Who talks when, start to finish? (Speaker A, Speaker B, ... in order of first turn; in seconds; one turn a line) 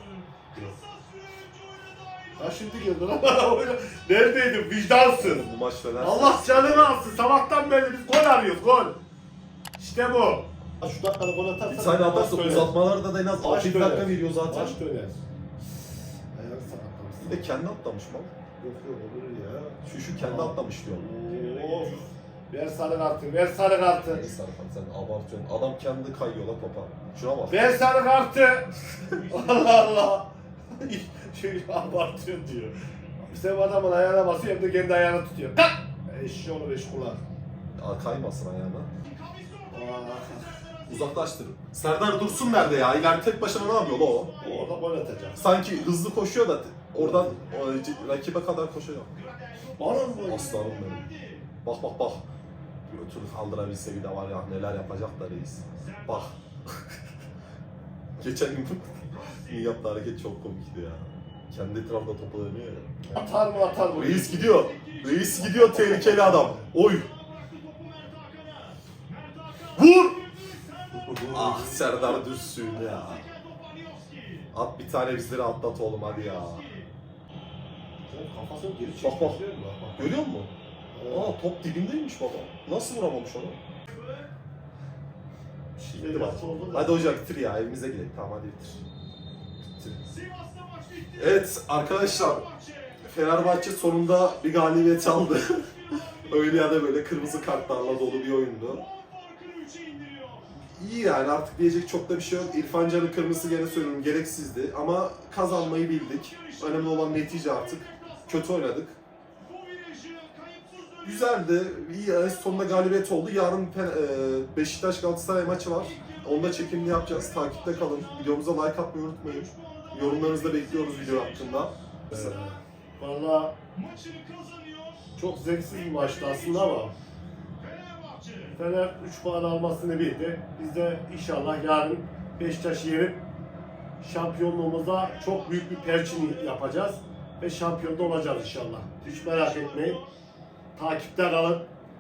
Speaker A: 1.3-2.2
Speaker B: 2.4-9.0
Speaker C: 5.2-7.0
Speaker B: 9.8-12.8
Speaker C: 11.7-14.8
Speaker B: 13.4-15.2
Speaker B: 16.3-17.5
Speaker C: 17.2-18.3
Speaker B: 18.6-24.3
Speaker C: 19.8-21.1
Speaker C: 24.1-27.6
Speaker B: 27.5-37.2
Speaker C: 37.8-38.9
Speaker B: 39.7-40.6
Speaker C: 40.9-44.3
Speaker B: 44.4-45.4
Speaker C: 45.4-49.1
Speaker B: 47.0-47.4
Speaker B: 49.8-50.8
Speaker C: 50.2-51.1
Speaker C: 51.6-52.2
Speaker C: 52.9-56.4
Speaker C: 58.2-63.1
Speaker B: 63.1-64.7
Speaker C: 63.9-67.1
Speaker B: 65.4-66.7
Speaker A: 67.5-68.8
Speaker C: 69.7-70.2
Speaker B: 71.0-72.2
Speaker C: 71.3-73.3
Speaker A: 73.0-74.2
Speaker C: 74.5-76.7
Speaker B: 78.1-80.2
Speaker C: 79.0-79.4
Speaker C: 80.0-80.5
Speaker B: 80.9-81.4
Speaker C: 81.1-83.6
Speaker B: 85.8-87.2
Speaker C: 85.9-88.8
Speaker C: 91.2-92.5
Speaker C: 93.0-98.9
Speaker A: 99.3-100.4
Speaker C: 100.6-109.0
Speaker A: 109.7-110.9
Speaker C: 111.0-122.5
Speaker B: 122.1-123.6
Speaker A: 124.0-124.7
Speaker B: 125.2-126.9
Speaker A: 128.1-128.3
Speaker B: 128.4-133.2
Speaker B: 134.0-140.0
Speaker B: 140.8-141.7